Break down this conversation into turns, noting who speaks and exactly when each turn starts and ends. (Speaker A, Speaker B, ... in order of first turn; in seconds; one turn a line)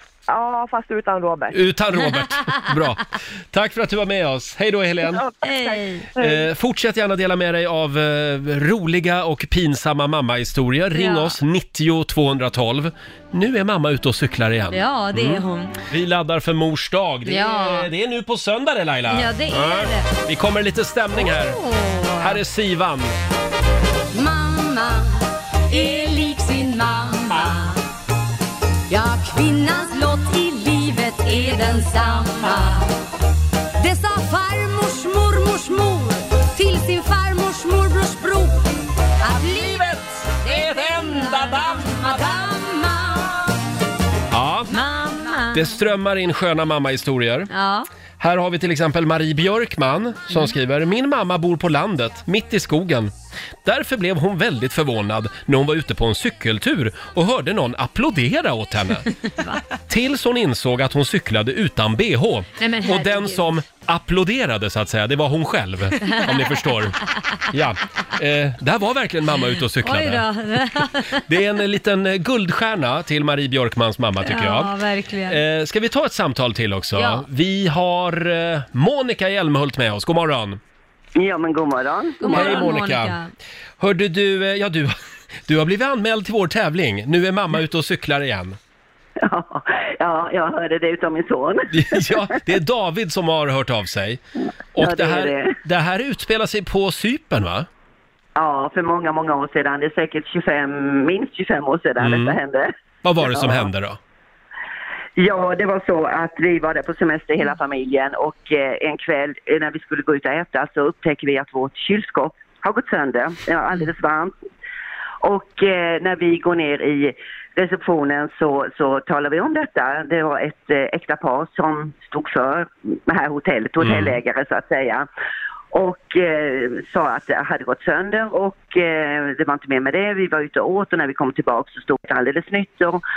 Speaker A: 0.3-1.6
Speaker B: 1.5-5.2
Speaker A: 5.1-6.5
Speaker C: 5.4-6.0
Speaker B: 6.2-21.6
Speaker C: 10.9-11.4
Speaker C: 14.7-15.8
Speaker C: 17.3-17.9
Speaker C: 19.1-20.1
Speaker C: 21.1-22.4
Speaker B: 22.2-23.1
Speaker D: 24.1-27.8
Speaker D: 28.9-32.9
Speaker D: 33.8-38.7
Speaker D: 39.2-43.5
Speaker C: 40.5-41.8
Speaker B: 40.6-41.5
Speaker B: 44.3-44.8
Speaker C: 44.7-45.7
Speaker B: 45.5-47.5
Speaker C: 47.5-47.9
Speaker B: 48.2-53.1
Speaker B: 53.6-59.1
Speaker B: 59.9-67.0
Speaker C: 62.6-63.4
Speaker C: 66.0-66.7
Speaker B: 67.5-70.2
Speaker C: 69.8-71.2
Speaker B: 71.3-74.7
Speaker C: 74.2-75.4
Speaker B: 75.3-80.6
Speaker C: 77.0-77.2
Speaker E: 81.2-82.6
Speaker C: 82.2-83.3
Speaker B: 82.3-83.2
Speaker B: 83.8-88.6
Speaker E: 89.2-92.2
Speaker B: 91.7-94.2
Speaker B: 94.8-97.7
Speaker E: 94.8-95.5
Speaker E: 98.4-102.7
Speaker B: 102.0-102.4
Speaker B: 103.0-104.0
Speaker E: 103.2-103.7
Speaker E: 105.2-114.4
Speaker E: 115.2-125.1
Speaker B: 123.8-124.2
Speaker E: 125.7-133.0